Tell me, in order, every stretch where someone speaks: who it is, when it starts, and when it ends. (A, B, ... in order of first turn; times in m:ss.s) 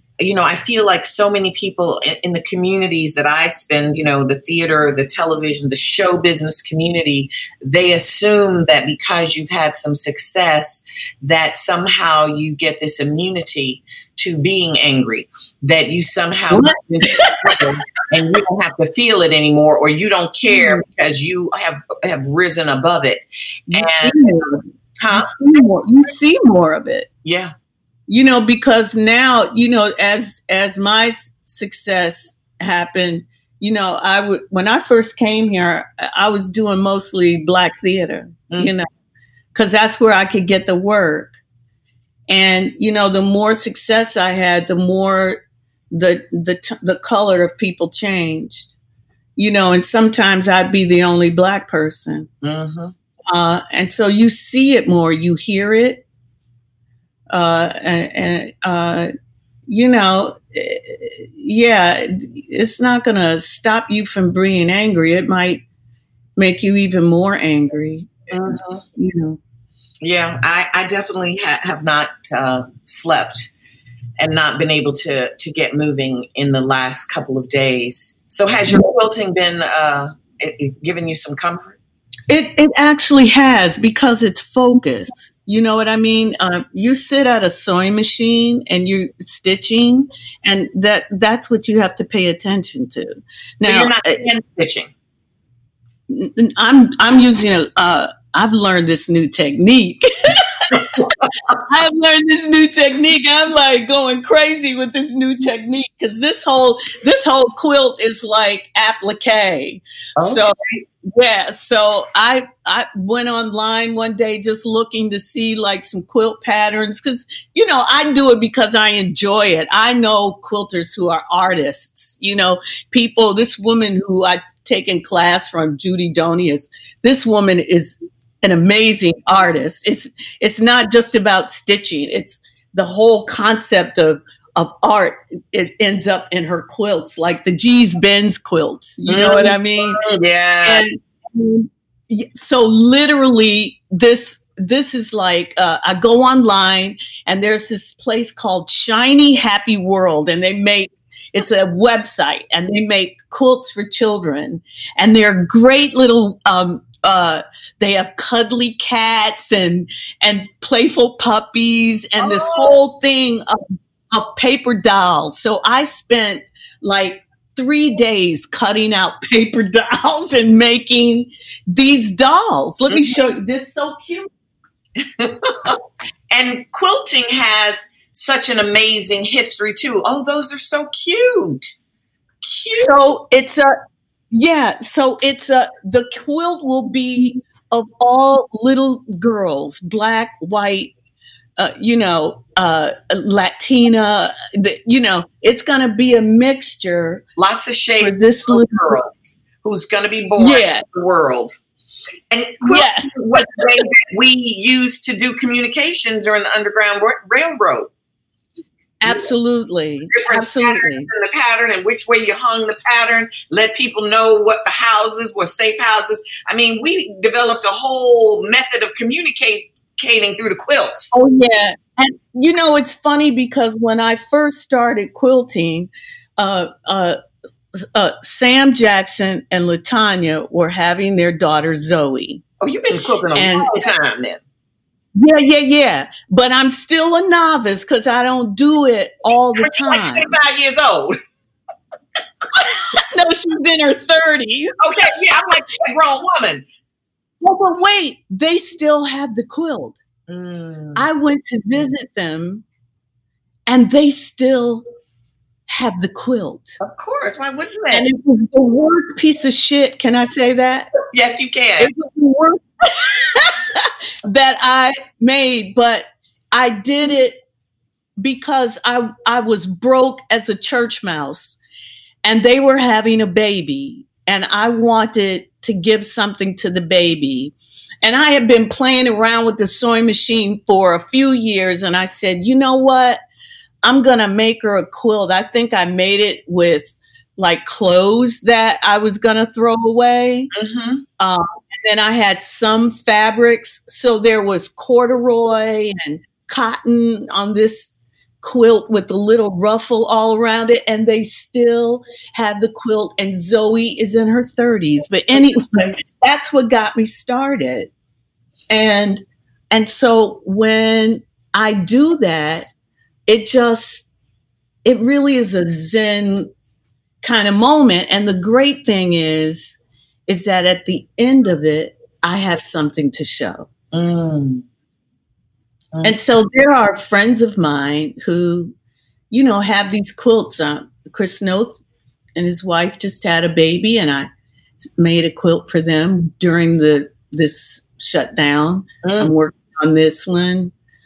0:00.2-0:24.2 A
0:16.5-0:17.7 B
0:20.5-0:20.8 B
0:23.7-0:27.1 B
0:25.0-0:25.3 A
0:27.2-0:27.5 A
0:28.1-0:38.9 B
0:39.5-0:41.4 B
0:42.3-0:45.4 B
0:45.9-0:48.7 B
0:49.4-0:52.3 B
0:52.4-0:52.9 A
0:53.3-0:56.0 B
0:57.3-0:59.1 B
0:59.7-1:05.6 B
1:06.4-1:09.4 B
1:08.3-1:08.8 A
1:10.0-1:13.5 A
1:14.2-1:21.8 A
1:22.3-1:34.2 B
1:33.6-1:34.9 A
1:36.1-1:41.0 B
1:41.0-1:41.3 A
1:41.6-2:20.0 B
1:50.2-1:50.8 A
2:19.1-2:20.8 A
2:20.6-2:43.6 B
2:42.2-2:42.8 A
2:44.1-2:54.3 B
2:52.9-2:53.2 A
2:55.0-3:01.7 A
3:02.4-3:03.0 A
3:02.8-3:03.7 B
3:04.3-3:10.9 B
3:11.6-3:17.2 B
3:17.4-3:21.5 A
3:18.0-3:19.0 B
3:20.4-3:20.9 B
3:22.3-3:27.9 A
3:22.6-3:23.8 B
3:29.0-3:31.1 B
3:30.1-3:41.2 A
3:41.1-3:47.2 B
3:47.8-3:52.4 B
3:52.6-3:54.4 A
3:53.3-3:53.9 B
3:55.2-4:00.3 B
3:59.6-4:01.2 A
4:02.6-4:05.1 B
4:04.8-4:06.6 A
4:07.4-4:10.0 B
4:10.3-4:11.1 A
4:11.0-4:12.6 B
4:13.7-4:14.8 B
4:15.7-4:16.8 B
4:16.8-4:18.1 A
4:17.9-4:20.9 B
4:21.1-4:21.9 A
4:21.8-4:27.4 B
4:28.2-4:31.6 B
4:32.2-4:43.2 B
4:43.8-4:50.5 B
4:50.5-4:51.0 A
4:51.2-5:07.9 B
5:08.7-5:12.7 B
5:13.3-5:14.1 B
5:14.8-5:16.5 B
5:17.2-5:23.7 B
5:23.9-5:24.6 A
5:26.0-5:28.7 B
5:29.3-5:31.8 B
5:32.4-5:34.3 B
5:35.0-5:40.7 B
5:39.0-5:39.3 A